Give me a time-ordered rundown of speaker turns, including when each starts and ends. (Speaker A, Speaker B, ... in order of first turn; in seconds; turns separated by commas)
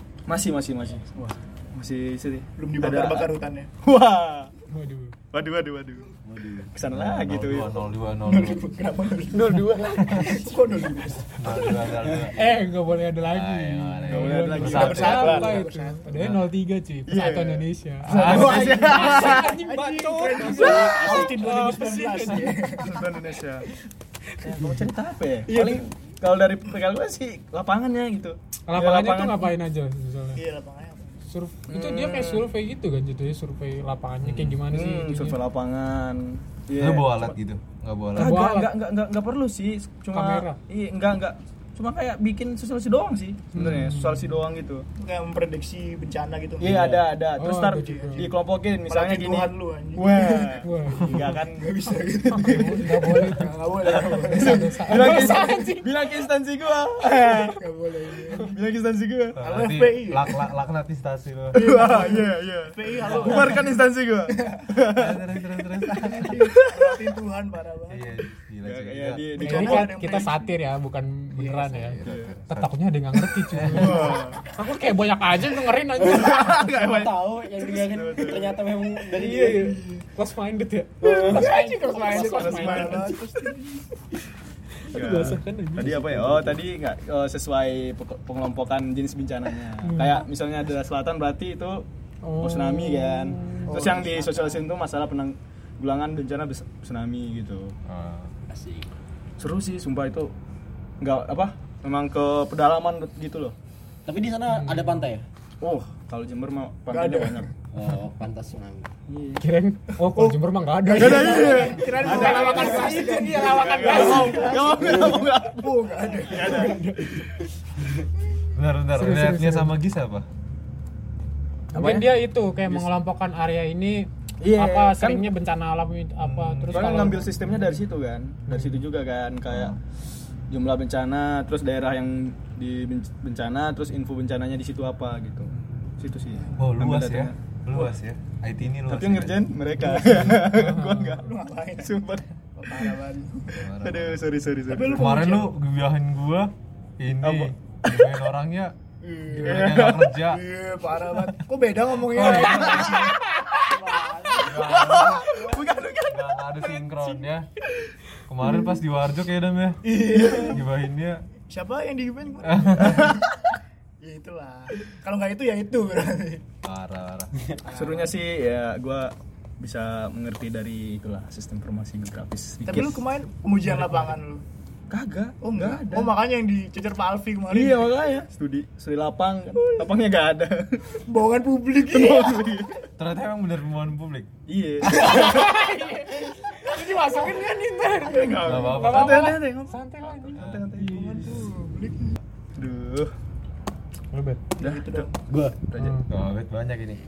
Speaker A: 0.3-4.5, Speaker B: 2.6-3.7, Speaker C: 4.7-5.2, Speaker A: 5.3-6.1, Speaker D: 6.2-6.7, Speaker A: 6.7-7.7, Speaker E: 6.9-8.7, Speaker B: 8.2-11.7, Speaker C: 9.3-10.5, Speaker E: 10.0-10.4, Speaker E: 11.3-12.6, Speaker C: 12.2-22.9, Speaker E: 13.2-15.4, Speaker A: 14.1-15.6, Speaker B: 14.6-16.3, Speaker E: 16.1-16.5, Speaker A: 17.1-19.6, Speaker E: 18.1-18.8, Speaker B: 18.1-23.0, Speaker D: 20.4-21.5, Speaker A: 22.8-23.7, Speaker C: 24.3-24.8, Speaker A: 24.4-29.5, Speaker C: 25.5-25.8, Speaker C: 28.7-30.4, Speaker B: 30.3-31.2, Speaker C: 31.3-35.4, Speaker A: 31.7-32.4, Speaker E: 34.2-34.6, Speaker A: 34.7-37.4, Speaker E: 36.8-38.5, Speaker C: 38.1-38.7, Speaker A: 38.1-44.8, Speaker C: 40.1-40.6, Speaker C: 43.5-44.3, Speaker B: 45.0-47.0, Speaker A: 46.6-51.7, Speaker C: 47.4-48.3, Speaker B: 47.8-48.3, Speaker B: 48.9-55.4, Speaker C: 50.5-51.3, Speaker A: 52.2-52.7, Speaker C: 52.3-55.9, Speaker A: 53.8-57.6, Speaker B: 57.4-58.6, Speaker A: 58.3-59.4, Speaker E: 59.4-61.8, Speaker B: 59.4-60.5, Speaker B: 61.5-63.8, Speaker A: 61.5-65.2, Speaker E: 63.1-63.3, Speaker B: 64.3-64.7, Speaker E: 64.9-66.5, Speaker B: 65.8-68.2, Speaker A: 66.5-67.0, Speaker E: 67.9-69.3, Speaker A: 68.6-70.0, Speaker B: 69.4-70.5, Speaker C: 69.4-76.7, Speaker B: 71.3-71.8, Speaker E: 71.8-72.7, Speaker A: 72.0-72.3, Speaker E: 73.5-74.1, Speaker A: 73.7-74.4, Speaker B: 74.0-74.4, Speaker D: 76.0-79.7, Speaker A: 76.0-78.6, Speaker C: 79.1-83.5, Speaker B: 79.4-80.0, Speaker D: 81.0-81.5, Speaker B: 81.3-83.8, Speaker A: 82.1-83.1, Speaker C: 84.8-86.1, Speaker A: 84.9-91.8, Speaker D: 85.8-86.6, Speaker C: 89.8-90.3, Speaker C: 92.2-93.8, Speaker A: 92.4-97.7, Speaker B: 93.7-94.5, Speaker E: 97.8-98.3, Speaker D: 98.5-98.9, Speaker A: 99.4-100.3, Speaker A: 101.0-103.5, Speaker D: 104.1-105.2, Speaker C: 104.5-105.1, Speaker A: 105.6-107.5, Speaker B: 106.9-107.5, Speaker D: 107.7-108.9, Speaker A: 109.1-109.4, Speaker C: 109.4-115.0, Speaker B: 110.1-116.9, Speaker A: 111.0-116.8, Speaker D: 114.8-115.2, Speaker C: 116.4-117.5, Speaker E: 118.5-120.3, Speaker C: 118.9-119.7, Speaker C: 121.7-127.6, Speaker A: 121.7-122.1, Speaker A: 124.4-125.3, Speaker E: 126.2-127.0, Speaker A: 126.7-129.8, Speaker C: 128.5-128.8, Speaker E: 129.5-129.8, Speaker A: 130.5-137.9, Speaker E: 136.6-139.5, Speaker A: 138.9-142.9, Speaker C: 139.8-141.3, Speaker B: 141.2-142.0, Speaker B: 142.6-143.6, Speaker E: 143.5-144.2, Speaker A: 143.8-145.2, Speaker B: 144.7-145.5, Speaker E: 144.8-148.7, Speaker A: 147.2-148.1, Speaker B: 149.0-156.1, Speaker E: 149.3-150.4, Speaker A: 149.4-150.1, Speaker C: 152.1-153.2, Speaker A: 152.2-153.1, Speaker D: 153.6-154.8, Speaker E: 154.4-155.3, Speaker A: 154.6-156.2, Speaker E: 156.1-157.5, Speaker E: 158.3-161.2, Speaker B: 159.8-160.6, Speaker A: 160.2-160.5, Speaker B: 161.5-163.4, Speaker E: 162.4-163.2, Speaker B: 164.0-166.4, Speaker E: 166.6-167.3, Speaker B: 167.6-168.2, Speaker A: 167.7-173.0, Speaker B: 172.6-174.4, Speaker C: 173.6-174.2, Speaker A: 174.9-176.1, Speaker B: 175.4-177.9, Speaker A: 177.5-180.8, Speaker B: 179.6-179.9, Speaker B: 180.9-182.6, Speaker A: 181.8-182.8, Speaker E: 183.0-184.3, Speaker A: 184.5-185.7, Speaker C: 184.9-191.2, Speaker A: 188.0-191.3, Speaker B: 188.1-188.6, Speaker E: 188.4-189.3, Speaker E: 190.3-190.9, Speaker B: 190.8-192.2, Speaker A: 192.6-193.1, Speaker C: 194.1-194.4, Speaker B: 194.6-195.2, Speaker A: 194.6-195.1, Speaker D: 195.3-195.6, Speaker A: 195.6-196.0, Speaker C: 195.8-196.1, Speaker E: 196.1-197.0